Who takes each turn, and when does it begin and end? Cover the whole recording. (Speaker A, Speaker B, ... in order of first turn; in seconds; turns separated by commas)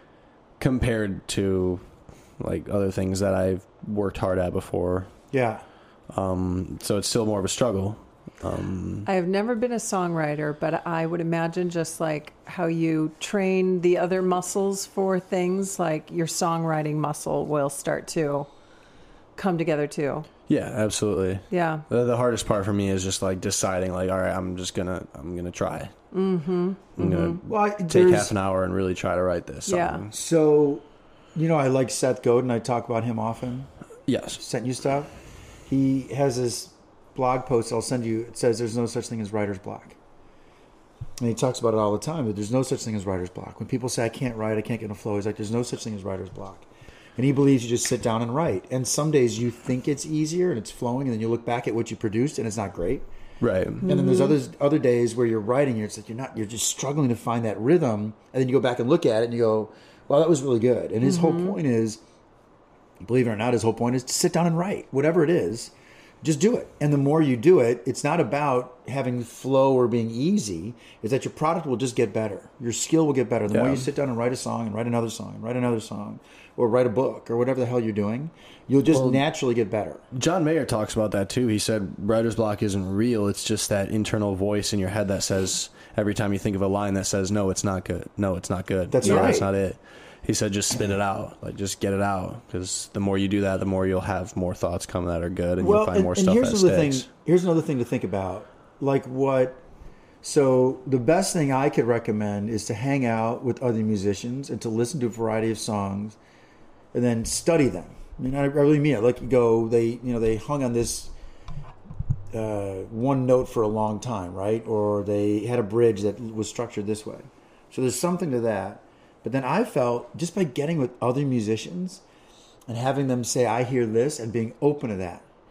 Speaker A: 0.6-1.8, Speaker A: 2.4-5.1, Speaker B: 5.3-5.6, Speaker A: 6.1-9.1, Speaker C: 9.1-18.5, Speaker C: 19.4-20.3, Speaker A: 20.5-25.9, Speaker C: 21.5-21.8, Speaker C: 26.1-27.4, Speaker A: 27.0-30.1, Speaker B: 27.4-28.3, Speaker C: 29.7-30.0, Speaker B: 30.1-33.7, Speaker A: 34.1-34.4, Speaker B: 34.4-35.1, Speaker B: 35.7-40.0, Speaker B: 41.2-53.1, Speaker A: 53.4-53.9, Speaker C: 53.8-54.4, Speaker B: 53.8-62.0, Speaker C: 61.0-61.6, Speaker B: 63.0-80.0, Speaker A: 73.5-73.9, Speaker A: 78.9-79.2, Speaker A: 80.1-97.0, Speaker B: 88.9-89.5, Speaker B: 95.6-99.6, Speaker B: 100.2-106.2, Speaker B: 106.9-111.1, Speaker B: 112.3-122.0, Speaker B: 122.7-125.2